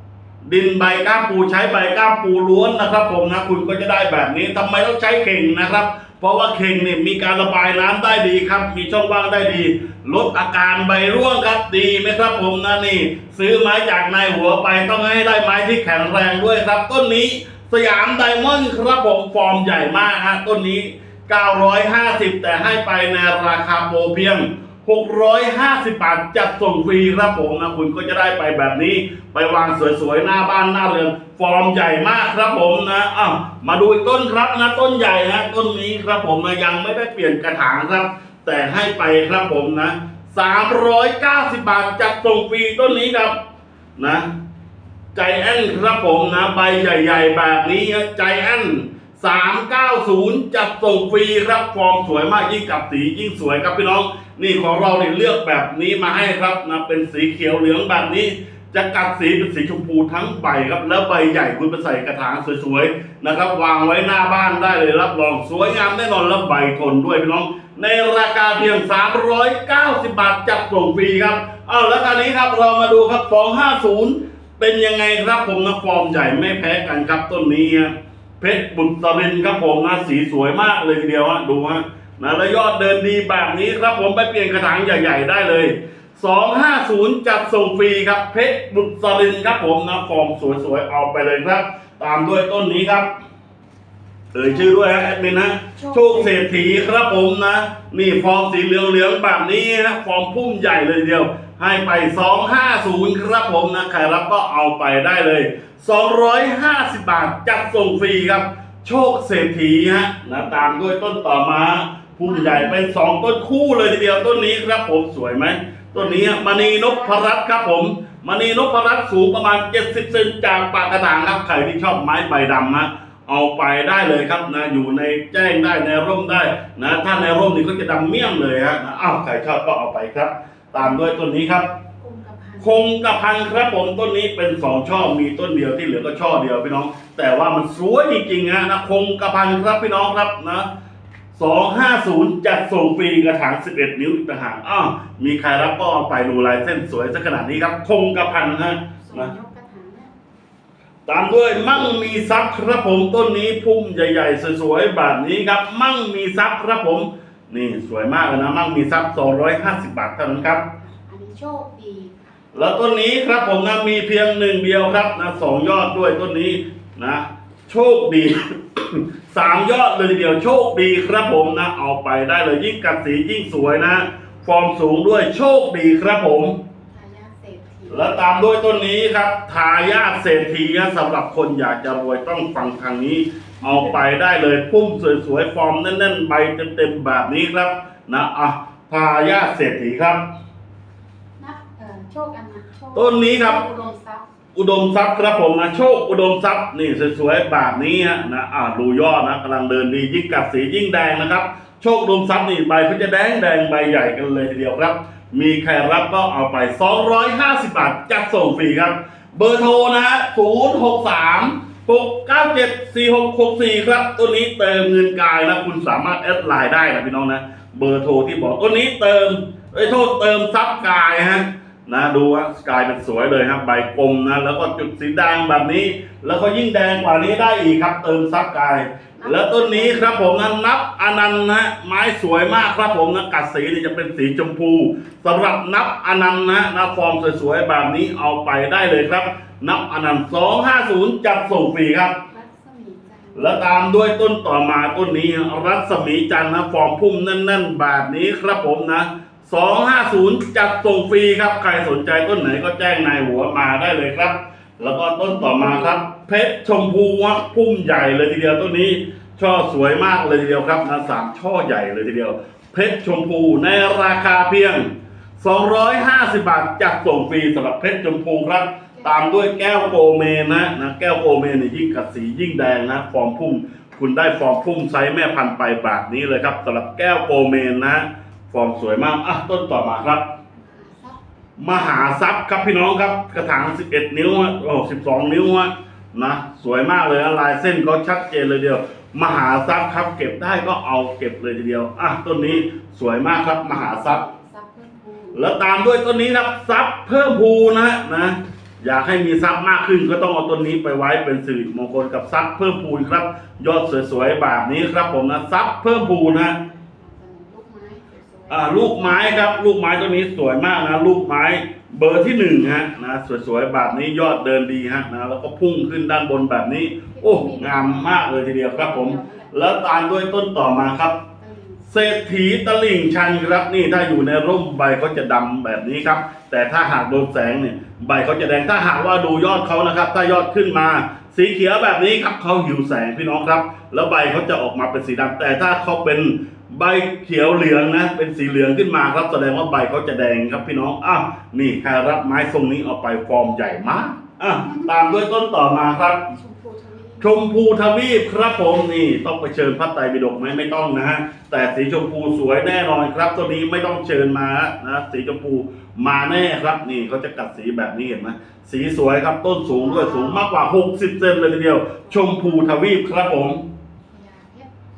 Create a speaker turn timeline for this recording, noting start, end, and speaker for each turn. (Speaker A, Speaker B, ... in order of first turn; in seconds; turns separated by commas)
Speaker A: 0.4-43.4, Speaker A: 44.0-44.3, Speaker A: 45.1-93.1, Speaker A: 94.3-131.7, Speaker B: 95.8-96.4, Speaker B: 110.3-110.8, Speaker B: 112.2-112.9, Speaker B: 115.9-117.3, Speaker B: 132.0-132.9, Speaker A: 132.6-140.7, Speaker A: 141.3-149.3, Speaker B: 149.0-150.1, Speaker A: 151.1-160.7, Speaker B: 160.8-162.3, Speaker A: 162.5-176.6, Speaker B: 176.9-178.2, Speaker A: 177.9-190.3, Speaker B: 183.6-184.0, Speaker B: 191.4-194.2, Speaker A: 192.9-193.7, Speaker A: 194.5-242.2, Speaker B: 229.2-230.2, Speaker B: 242.3-243.6, Speaker A: 243.3-280.2, Speaker B: 255.2-256.0, Speaker B: 268.9-269.5, Speaker B: 280.6-281.2, Speaker A: 281.6-294.2, Speaker B: 293.6-295.4, Speaker A: 295.3-306.6, Speaker B: 306.9-309.4, Speaker A: 308.5-321.2, Speaker B: 317.1-319.6, Speaker B: 321.4-321.9, Speaker A: 321.9-346.3, Speaker B: 344.6-344.9, Speaker B: 346.3-347.3, Speaker A: 347.2-363.6, Speaker B: 359.7-360.4, Speaker B: 362.1-362.8, Speaker B: 364.1-364.7